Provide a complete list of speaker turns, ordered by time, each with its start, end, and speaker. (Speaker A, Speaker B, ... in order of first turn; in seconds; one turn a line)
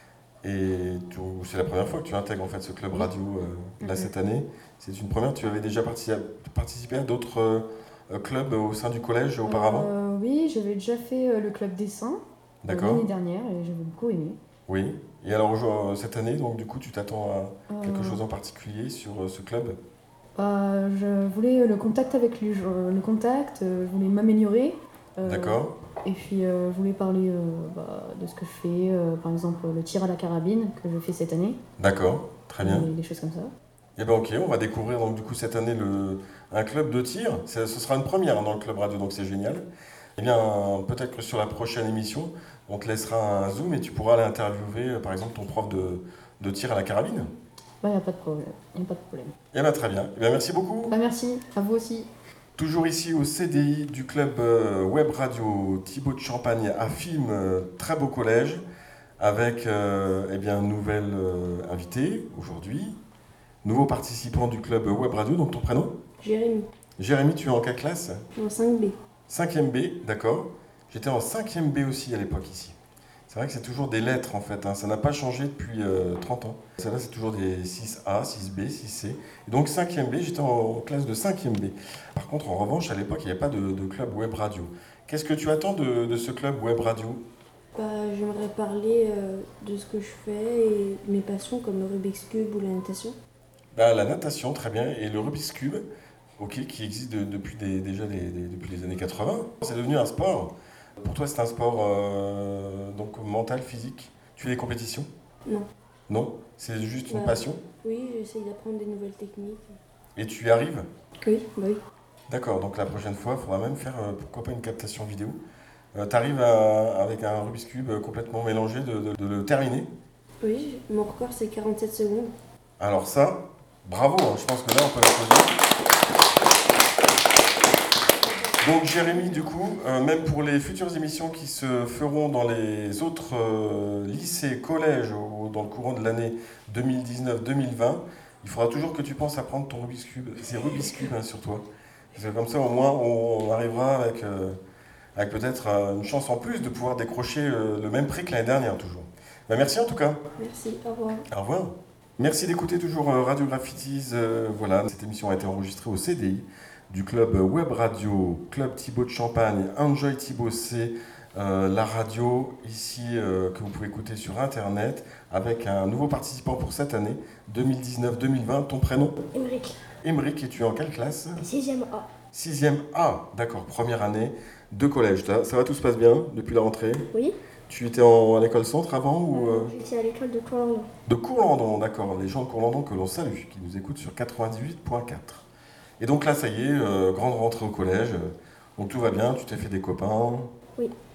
Speaker A: 0.4-9.9
Speaker B: 3.8-4.1
Speaker B: 9.4-14.4
Speaker A: 12.6-13.1
Speaker A: 14.7-19.8
Speaker B: 17.7-18.2
Speaker B: 20.4-31.6
Speaker A: 25.2-25.7
Speaker A: 31.8-32.9
Speaker B: 32.6-33.5
Speaker A: 34.0-39.6
Speaker A: 40.2-47.3
Speaker B: 47.8-49.3
Speaker A: 49.5-51.0
Speaker B: 50.9-52.1
Speaker A: 52.5-58.6
Speaker A: 59.2-63.0
Speaker A: 63.6-65.9
Speaker C: 66.2-66.7
Speaker A: 67.0-68.2
Speaker C: 68.4-68.9
Speaker A: 69.3-72.8
Speaker A: 73.3-87.2
Speaker C: 87.7-93.2
Speaker A: 93.7-95.8
Speaker A: 96.4-105.1
Speaker A: 106.1-107.6
Speaker C: 107.1-109.7
Speaker A: 110.2-110.9
Speaker C: 111.2-111.8
Speaker A: 112.3-115.4
Speaker A: 115.9-119.9
Speaker C: 120.4-122.3
Speaker A: 122.8-125.6
Speaker A: 128.6-141.6
Speaker A: 142.1-144.6
Speaker A: 145.2-150.2
Speaker C: 150.4-151.2
Speaker A: 151.3-169.1
Speaker D: 169.3-169.8
Speaker A: 170.0-171.4
Speaker D: 171.4-172.1
Speaker A: 172.3-177.0
Speaker D: 177.1-177.4
Speaker A: 177.7-179.7
Speaker D: 179.3-180.9
Speaker A: 181.1-185.4
Speaker A: 186.0-190.5